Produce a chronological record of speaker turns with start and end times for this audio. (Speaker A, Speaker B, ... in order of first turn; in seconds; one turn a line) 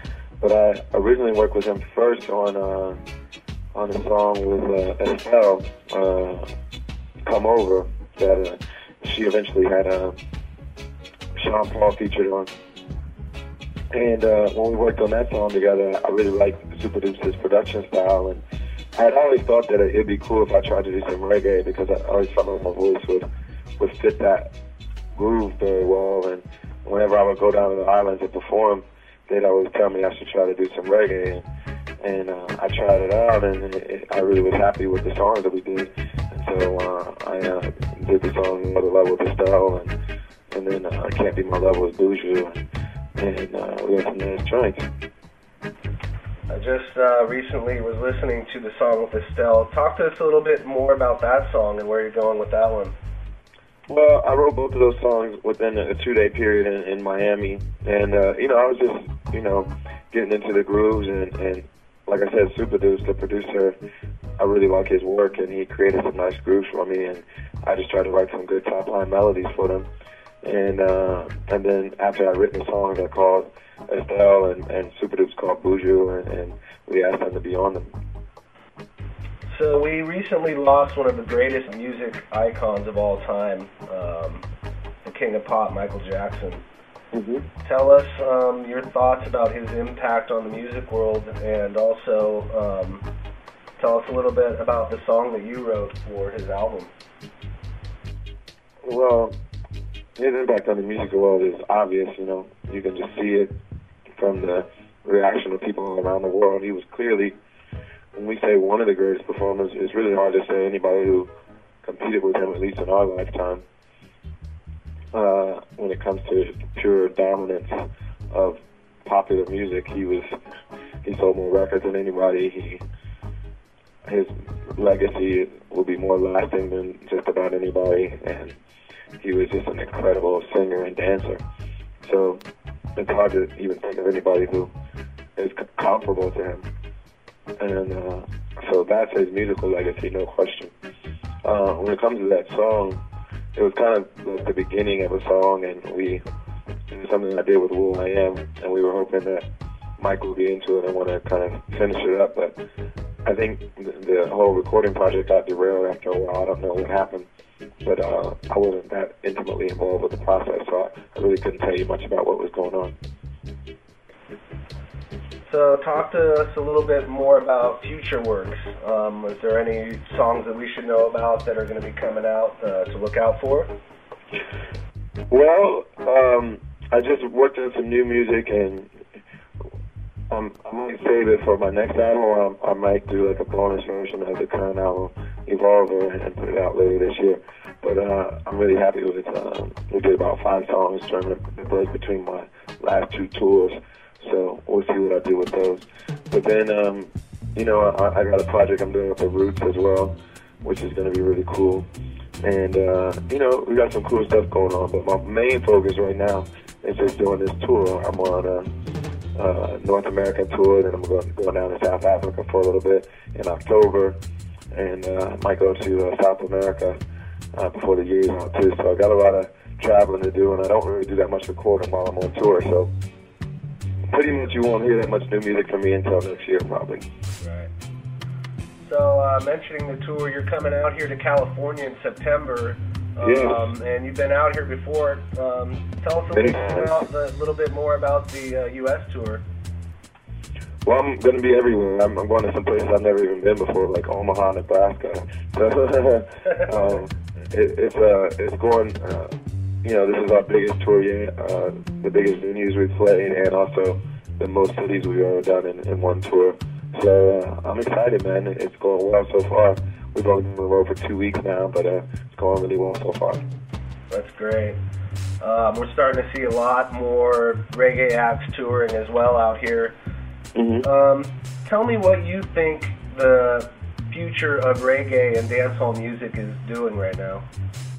Speaker A: 0.4-3.0
Speaker A: 3.7-6.5
Speaker A: 7.2-10.1
Speaker A: 11.4-12.5
Speaker A: 13.9-18.4
Speaker A: 18.9-23.3
Speaker A: 23.8-24.5
Speaker A: 25.1-31.4
Speaker A: 32.0-40.0
Speaker A: 40.5-42.6
Speaker A: 43.2-44.9
Speaker B: 46.5-52.9
Speaker A: 53.9-63.8
Speaker A: 64.4-69.9
Speaker A: 70.4-77.9
Speaker B: 79.5-84.4
Speaker B: 85.0-86.6
Speaker A: 87.1-87.5
Speaker B: 87.6-93.0
Speaker B: 93.8-96.9
Speaker A: 98.8-99.3
Speaker A: 100.2-103.5
Speaker A: 104.2-107.3
Speaker A: 108.2-111.3
Speaker A: 111.8-113.6
Speaker A: 115.1-117.8
Speaker A: 118.3-120.3
Speaker A: 121.0-122.8
Speaker A: 124.0-128.6
Speaker A: 129.2-131.4
Speaker A: 132.0-132.4
Speaker A: 132.9-134.7
Speaker A: 135.4-136.6
Speaker A: 137.6-140.7
Speaker A: 141.4-143.0
Speaker A: 143.5-146.2
Speaker A: 146.9-149.4
Speaker A: 150.0-152.6
Speaker A: 153.2-157.3
Speaker A: 157.8-162.9
Speaker B: 165.5-173.7
Speaker A: 175.3-178.9
Speaker A: 180.3-201.9
Speaker A: 202.4-208.7
Speaker A: 209.3-214.2
Speaker A: 214.7-217.0
Speaker A: 217.5-222.9
Speaker A: 224.1-227.0
Speaker B: 227.4-227.7
Speaker B: 228.8-239.4
Speaker A: 233.2-233.7
Speaker A: 236.3-237.0
Speaker A: 240.8-249.3
Speaker A: 249.8-263.4
Speaker B: 264.1-264.8
Speaker B: 265.4-269.9
Speaker A: 270.5-270.9
Speaker B: 270.8-277.4